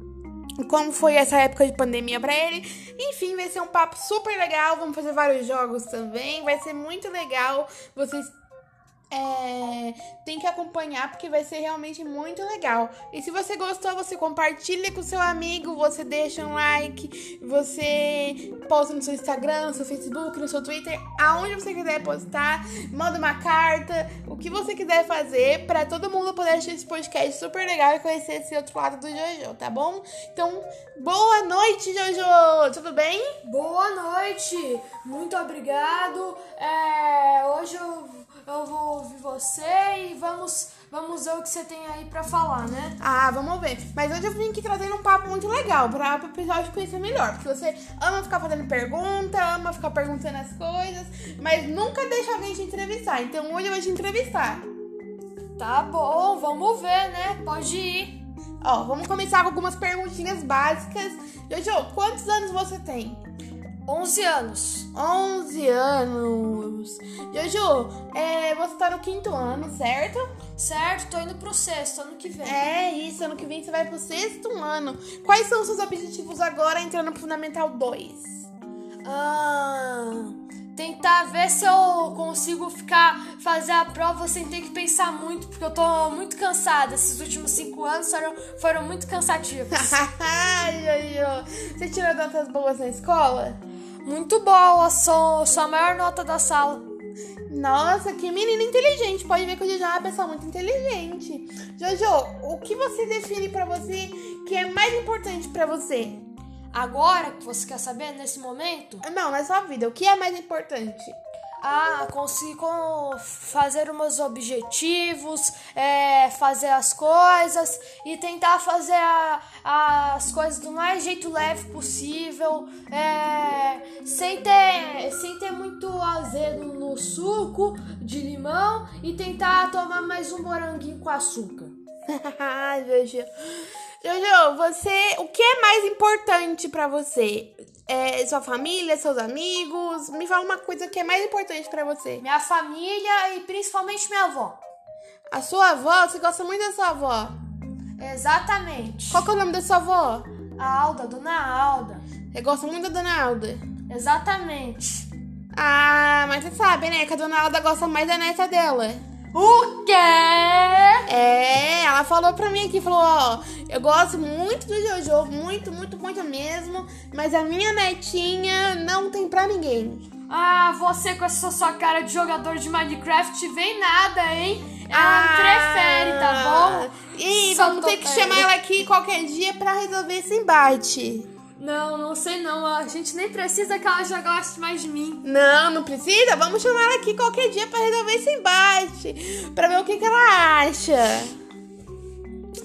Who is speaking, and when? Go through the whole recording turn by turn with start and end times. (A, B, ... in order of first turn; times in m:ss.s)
0:00.6-0:08.3 A
0:09.1-0:33.4 A
0:33.4-0:43.0 B
0:43.0-0:54.7 A
0:55.6-0:58.2 B
0:58.6-1:03.2 A
1:03.8-1:04.9 B
1:04.9-1:10.3 A
1:10.6-1:12.6 B
1:12.4-1:18.5 A
1:19.0-1:30.0 B
1:29.7-1:33.6 A
1:34.0-1:36.9 B
1:37.5-1:46.2 A
1:46.7-1:49.0 B
1:49.0-1:51.2 A
1:51.6-2:11.8 B
2:12.1-2:22.2 A
2:22.2-2:24.6 B
2:25.3-2:27.4 A
2:28.0-2:29.3 B
2:29.1-2:30.3 A
2:30.6-2:32.0 B
2:32.3-2:33.6 A
2:33.9-2:35.0 B
2:35.5-2:39.0 A
2:39.3-2:41.0 B
2:41.1-2:50.0 A
2:50.3-2:58.5 B
2:54.9-3:01.3 A
3:01.6-3:05.2 B
3:05.2-3:11.4 A